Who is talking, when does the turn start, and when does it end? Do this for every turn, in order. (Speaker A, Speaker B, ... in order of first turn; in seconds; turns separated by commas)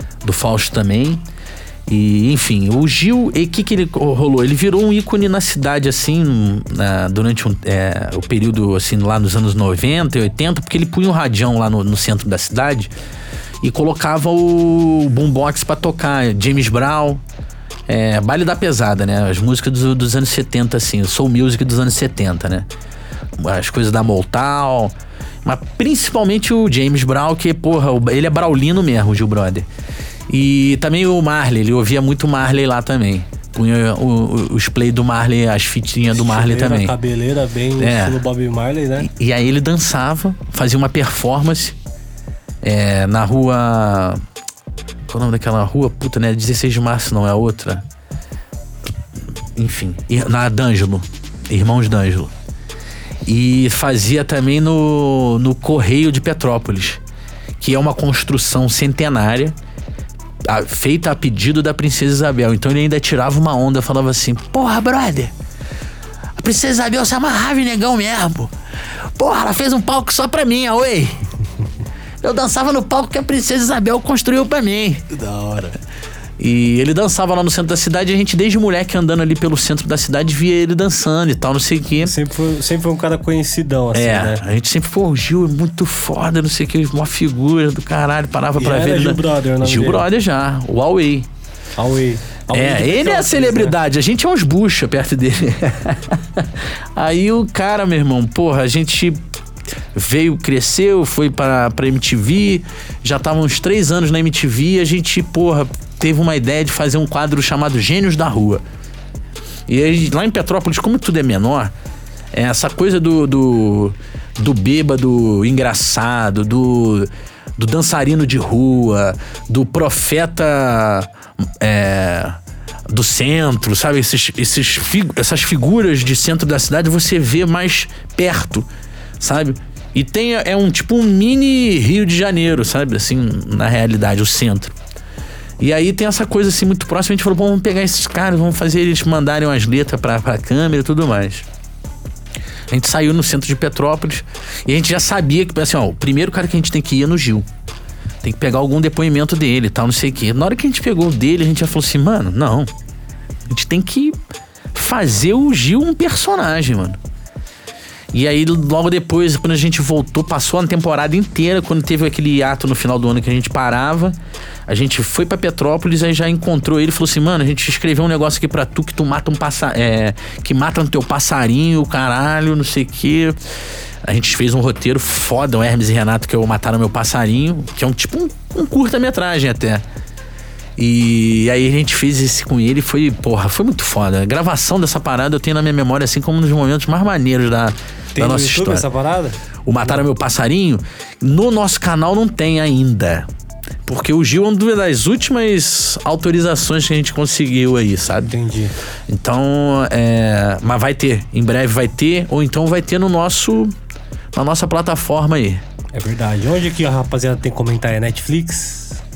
Speaker A: 0.2-1.2, Speaker A: 1.9-12.9, Speaker A: 13.6-17.2, Speaker A: 17.9-22.7, Speaker A: 23.4-29.7, Speaker A: 30.3-37.0, Speaker B: 36.1-39.1, Speaker A: 37.8-38.2, Speaker A: 39.0-41.8, Speaker A: 42.6-44.2, Speaker A: 45.1-47.9, Speaker A: 49.6-52.3, Speaker A: 53.2-57.0, Speaker A: 57.6-59.5, Speaker A: 60.5-65.3, Speaker A: 66.4-68.5, Speaker A: 69.2-71.2, Speaker A: 72.2-75.1, Speaker B: 75.1-75.8, Speaker A: 76.4-82.2, Speaker B: 82.0-84.4, Speaker A: 83.9-91.3, Speaker B: 88.6-90.1, Speaker B: 91.8-93.8, Speaker A: 92.5-99.2, Speaker A: 99.9-108.6, Speaker A: 109.7-111.7, Speaker A: 112.3-128.7, Speaker A: 129.2-134.7, Speaker A: 135.6-141.5, Speaker A: 142.7-147.5, Speaker A: 148.2-152.7, Speaker A: 153.5-154.2, Speaker A: 154.7-157.0, Speaker A: 158.1-173.4, Speaker A: 174.0-179.8, Speaker A: 180.8-188.9, Speaker B: 188.2-190.0, Speaker A: 189.7-193.3, Speaker A: 193.9-198.3, Speaker B: 198.3-198.7, Speaker A: 199.1-203.7, Speaker A: 204.3-205.6, Speaker B: 205.9-209.0